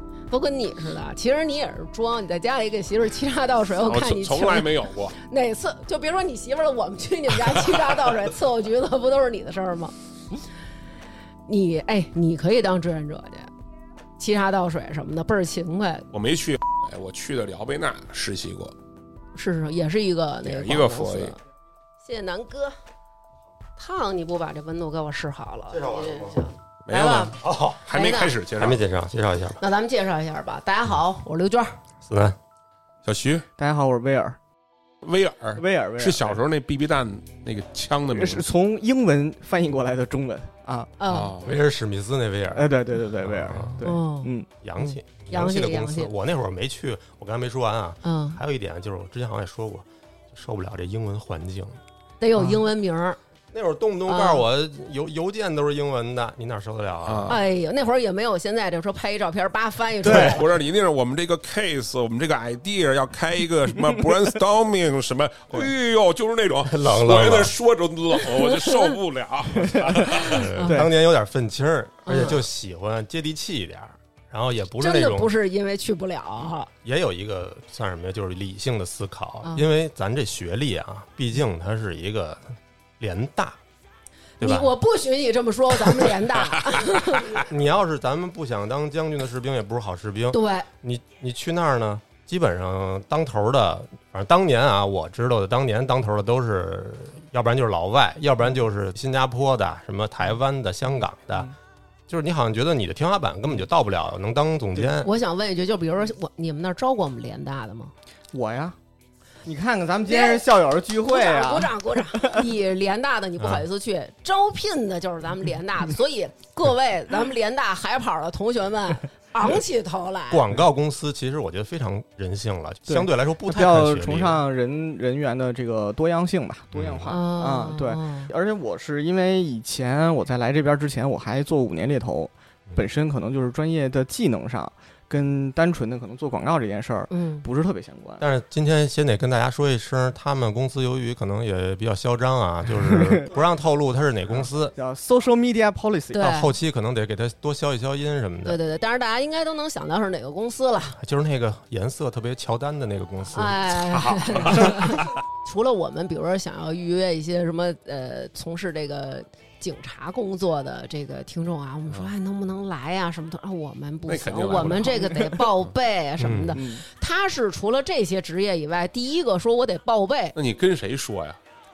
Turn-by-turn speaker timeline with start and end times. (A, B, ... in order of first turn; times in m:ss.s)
0:00.3-0:09.9 A
0:03.8-0:05.2 B
0:11.5-0:13.5 A
0:14.2-0:16.1 A
0:16.1-0:18.8 B
0:19.4-0:21.4 A
0:20.4-0:21.4 B
0:22.0-0:22.8 A
0:23.8-0:27.4 A
0:25.7-0:26.4 C
0:26.9-0:28.8 B
0:27.4-0:27.8 C
0:27.9-0:28.3 A
0:28.5-0:29.6 C
0:29.6-0:31.8 A
0:32.0-0:32.4 C
0:33.0-0:33.5 B
0:33.6-0:34.4 D
0:35.0-0:38.5 B
0:35.6-0:36.4 D
0:38.1-0:40.9 D
0:41.0-0:41.4 A
0:41.1-0:41.6 B
0:41.4-0:43.9 C
0:42.6-0:44.5 D
0:43.8-0:46.1 A
0:44.6-0:51.8 C
0:48.0-0:48.4 A
0:52.2-0:53.2 A
0:52.4-0:52.6 D
0:53.5-0:57.4 C
0:54.1-0:54.4 A
0:57.1-0:57.4 B
0:57.3-1:00.4 A
1:00.0-1:00.4 D
1:00.0-1:10.5 B
1:06.7-1:07.5 C
1:08.4-1:08.9 A
1:10.1-1:15.3 C
1:10.6-1:10.8 A
1:12.1-1:12.4 A
1:14.8-1:16.7 A
1:16.8-1:23.6 C
1:19.4-1:19.7 A
1:24.4-1:24.7 C
1:24.4-1:27.4 A
1:27.4-1:41.5 C
1:30.3-1:30.7 A
1:42.1-1:45.2 C
1:45.0-1:47.9 A
1:48.3-1:48.8 D
1:49.4-1:52.4 D
1:50.1-1:50.4 A
1:51.0-2:00.4 A
1:53.4-1:53.6 C
2:00.3-2:04.4 C
2:02.9-2:18.2 D
2:06.7-2:07.1 C
2:07.1-2:08.3 A
2:17.1-2:17.5 A
2:18.2-2:24.8 C
2:22.9-2:23.3 D
2:24.3-2:26.3 D
2:26.1-2:26.5 A
2:26.2-2:28.6 C
2:28.4-2:31.0 A
2:31.0-2:34.6 C
2:33.3-2:50.4 A
2:34.1-2:35.1 B
2:44.1-2:45.5 B
2:46.2-2:46.6 C
2:46.6-2:46.8 D
2:50.4-2:51.4 B